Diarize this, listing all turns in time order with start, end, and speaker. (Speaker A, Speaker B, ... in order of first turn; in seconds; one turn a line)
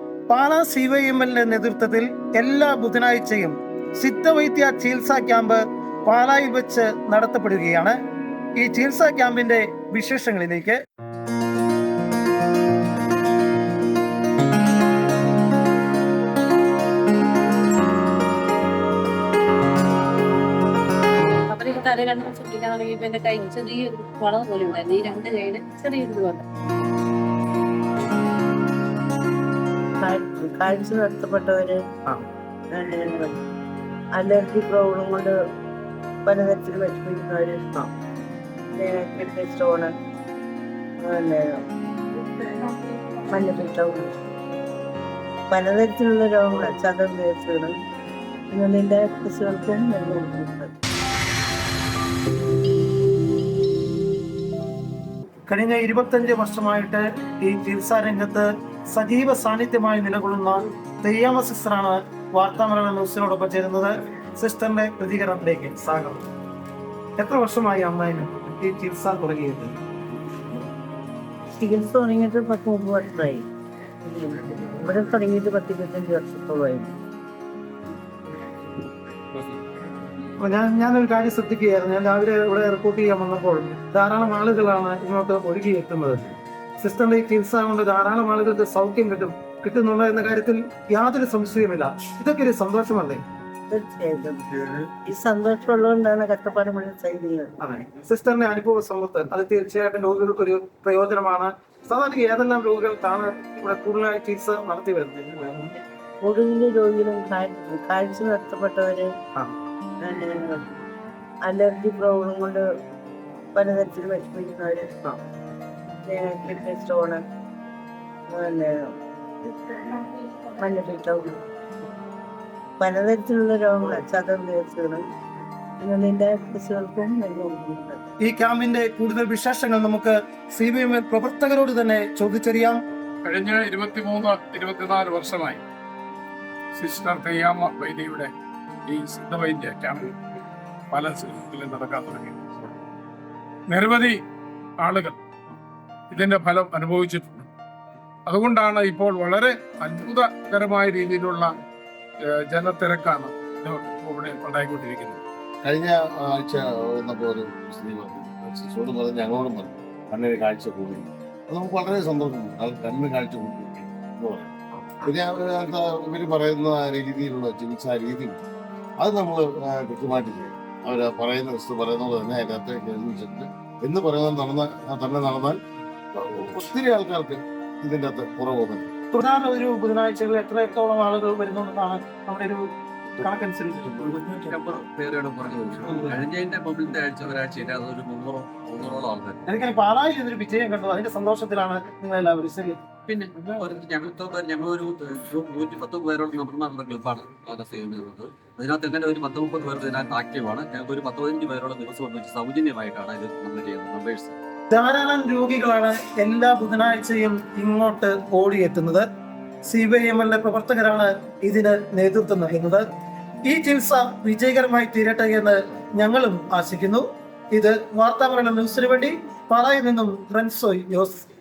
Speaker A: 0.3-8.0
Speaker A: 8.6-10.8
Speaker B: 21.5-26.4
Speaker C: 30.0-31.8
Speaker C: 32.7-33.3
Speaker C: 34.1-35.3
Speaker C: 36.2-37.9
Speaker C: 38.7-39.9
Speaker C: 41.0-41.6
Speaker C: 42.3-44.1
Speaker C: 45.5-47.7
Speaker C: 48.5-50.7
Speaker A: 55.5-66.3
Speaker A: 67.2-69.7
Speaker C: 71.6-73.5
Speaker C: 74.0-77.0
Speaker A: 80.4-86.3
Speaker A: 86.8-93.2
Speaker C: 93.7-97.5
Speaker A: 97.6-105.7
Speaker C: 106.2-109.1
Speaker C: 110.0-110.7
Speaker C: 111.4-112.7
Speaker C: 113.5-115.2
Speaker C: 116.0-117.2
Speaker C: 118.3-118.9
Speaker C: 119.4-121.4
Speaker C: 122.8-125.0
Speaker C: 125.8-128.1
Speaker A: 128.2-132.8
Speaker D: 133.2-135.6
Speaker D: 136.8-138.3
Speaker D: 138.9-140.2
Speaker D: 140.9-142.4
Speaker D: 143.7-144.2
Speaker D: 144.8-145.2
Speaker D: 146.1-147.5
Speaker D: 148.3-151.5
Speaker D: 152.3-155.2
Speaker E: 155.6-168.4
Speaker E: 169.0-175.6
Speaker E: 176.2-178.9
Speaker A: 179.1-184.6
Speaker F: 184.5-189.4
Speaker A: 189.5-192.8
Speaker F: 193.1-204.4
Speaker A: 204.7-209.1
Speaker A: 209.7-212.9
Speaker A: 213.5-221.2